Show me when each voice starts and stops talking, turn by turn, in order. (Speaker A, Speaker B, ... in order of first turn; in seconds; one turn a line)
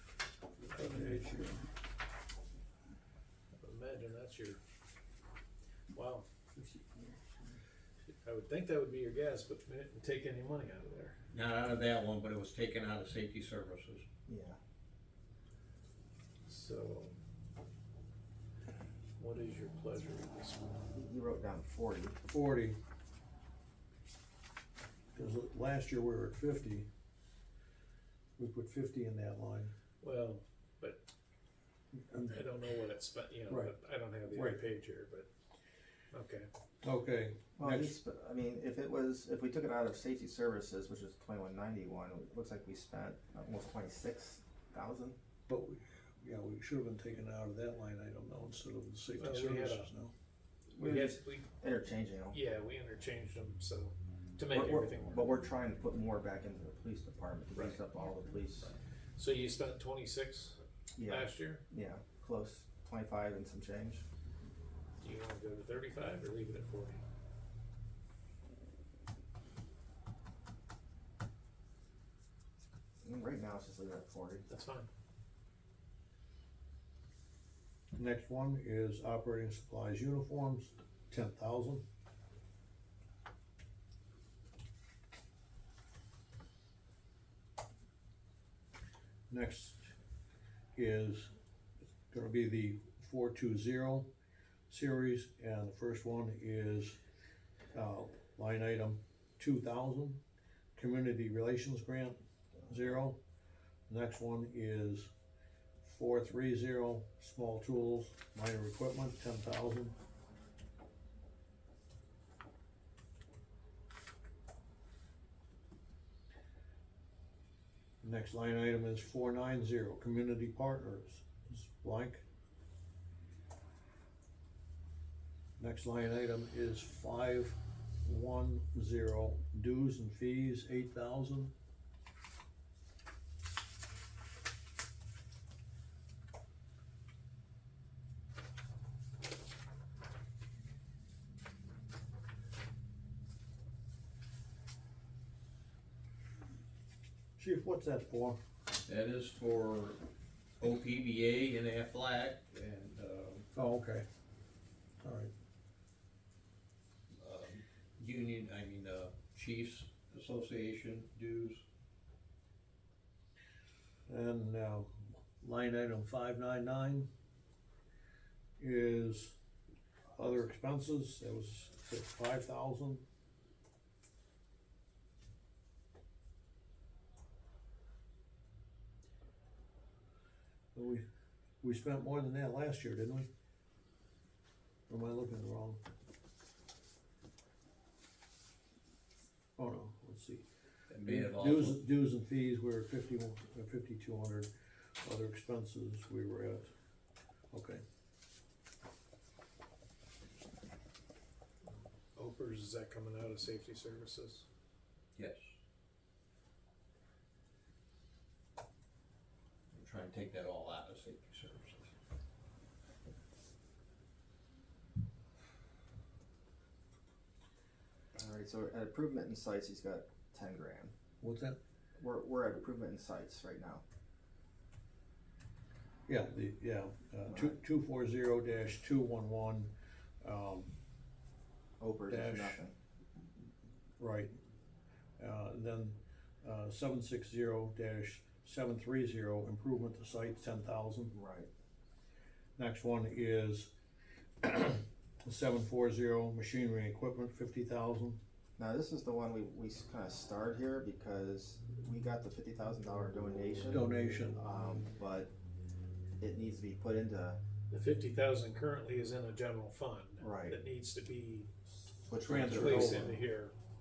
Speaker A: 0.7-1.6
Speaker B: 3.6-4.6
Speaker B: 5.9-6.2
Speaker A: 6.8-7.1
Speaker B: 8.1-11.2
Speaker C: 11.3-14.1
Speaker D: 14.3-14.6
Speaker B: 16.5-17.1
Speaker B: 19.2-20.8
Speaker D: 20.9-22.2
Speaker A: 22.3-22.8
Speaker A: 25.1-26.9
Speaker A: 28.4-29.7
Speaker B: 30.0-31.0
Speaker A: 31.9-32.5
Speaker B: 32.3-35.3
Speaker A: 33.5-33.7
Speaker A: 34.3-34.6
Speaker B: 36.1-36.5
Speaker A: 36.8-38.0
Speaker D: 37.6-45.2
Speaker A: 45.5-50.1
Speaker B: 49.2-49.9
Speaker D: 50.7-52.4
Speaker B: 50.8-51.5
Speaker B: 52.3-55.3
Speaker D: 54.5-58.7
Speaker B: 57.5-57.8
Speaker B: 58.6-61.6
Speaker D: 61.0-64.0
Speaker B: 65.0-67.0
Speaker D: 73.0-74.5
Speaker B: 74.5-74.9
Speaker A: 77.9-81.8
Speaker A: 89.3-89.9
Speaker A: 90.8-91.3
Speaker A: 92.1-94.1
Speaker A: 94.7-97.0
Speaker A: 97.7-100.2
Speaker A: 100.8-103.2
Speaker A: 103.9-105.1
Speaker A: 105.8-109.9
Speaker A: 118.0-122.2
Speaker A: 125.6-131.5
Speaker A: 147.4-148.4
Speaker C: 148.8-150.0
Speaker C: 150.6-153.5
Speaker A: 153.5-154.1
Speaker A: 155.0-155.3
Speaker C: 157.2-161.6
Speaker A: 164.1-167.1
Speaker A: 168.6-169.3
Speaker A: 170.1-173.0
Speaker A: 180.7-181.0
Speaker A: 181.6-183.3
Speaker A: 184.9-185.8
Speaker A: 189.6-190.4
Speaker C: 190.9-191.8
Speaker A: 191.0-194.5
Speaker A: 195.0-196.7
Speaker A: 197.5-197.8
Speaker B: 202.1-204.4
Speaker C: 205.2-205.5
Speaker C: 209.7-211.9
Speaker D: 218.1-220.9
Speaker A: 221.2-221.6
Speaker D: 222.0-223.8
Speaker A: 226.1-230.7
Speaker D: 227.3-227.6
Speaker D: 231.8-232.7
Speaker A: 232.1-232.6
Speaker A: 234.0-234.3
Speaker A: 235.2-241.1
Speaker D: 241.1-241.5
Speaker A: 242.6-243.7
Speaker A: 244.4-248.2
Speaker D: 248.6-255.3
Speaker A: 253.7-254.4
Speaker D: 256.2-257.4
Speaker B: 257.7-261.5
Speaker D: 260.2-260.6
Speaker D: 262.1-263.1
Speaker A: 262.2-263.1
Speaker B: 262.4-263.5